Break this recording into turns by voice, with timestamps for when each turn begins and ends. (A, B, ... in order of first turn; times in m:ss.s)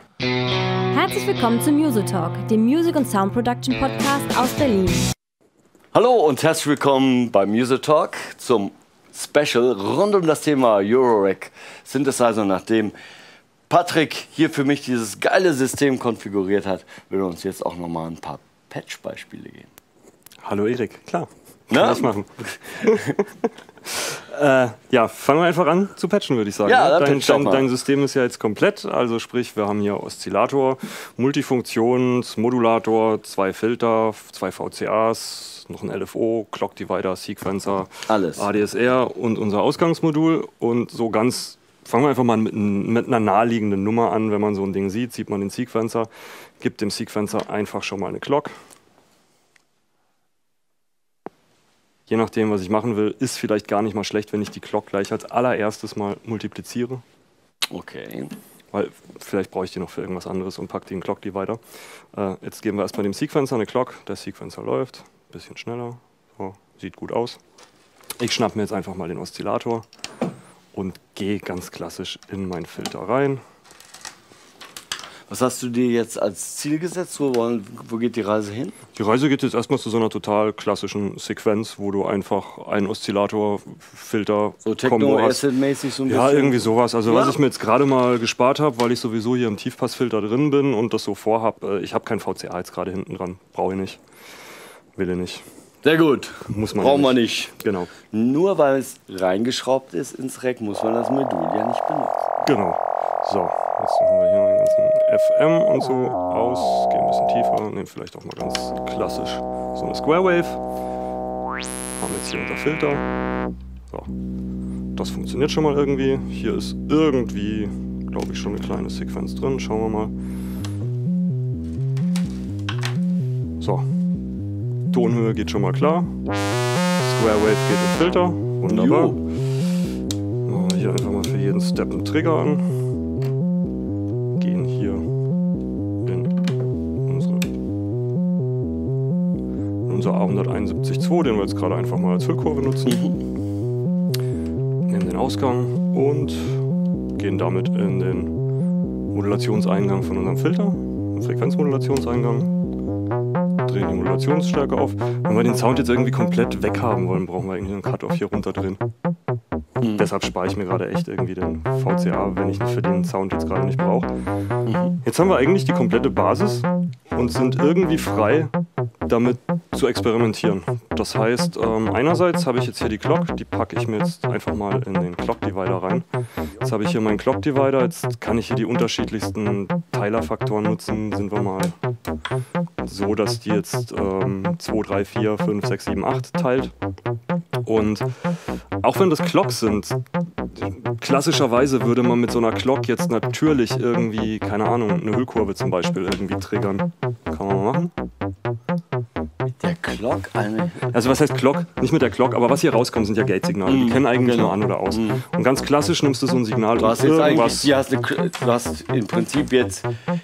0:00.9-0:05.1 A
0:05.9-0:12.9 B
0:13.7-0:19.7 B
0:20.4-0:48.5 C
0:21.7-0:23.2 B
0:26.6-0:27.7 B
0:38.1-0:38.5 B
0:52.1-0:57.0 C
0:57.7-0:58.3 B
0:58.7-1:01.6 C
1:02.1-1:07.4 C
1:08.2-1:09.8 C
1:10.7-1:13.4 C
1:15.3-1:18.8 B
1:19.0-1:25.4 C
1:24.6-1:27.4 B
1:26.0-1:34.0 C
1:35.0-1:35.4 C
1:35.8-1:42.3 B
1:36.4-1:37.9 C
1:42.4-1:50.6 C
1:52.0-1:53.1 C
1:54.9-2:00.1 C
2:03.6-2:03.9 C
2:04.9-2:06.1 C
2:07.0-2:09.2 C
2:08.6-2:09.2 B
2:10.4-2:12.8 C
2:14.4-2:15.1 C
2:16.0-2:16.3 C
2:17.0-2:17.5 C
2:19.8-2:23.1 C
2:24.9-2:26.6 C
2:27.2-2:28.3 C
2:29.1-2:32.5 C
2:33.6-2:38.8 C
2:39.8-2:40.0 B
2:40.0-2:44.1 C
2:44.7-2:45.0 B
2:45.0-2:48.5 C
2:49.0-2:56.1 C
2:56.6-3:01.8 C
3:02.8-3:06.7 C
3:07.6-3:08.1 C
3:08.8-3:17.9 C
3:19.5-3:20.9 B
3:20.9-3:27.7 C
3:23.6-3:25.2 B
3:26.8-3:29.9 B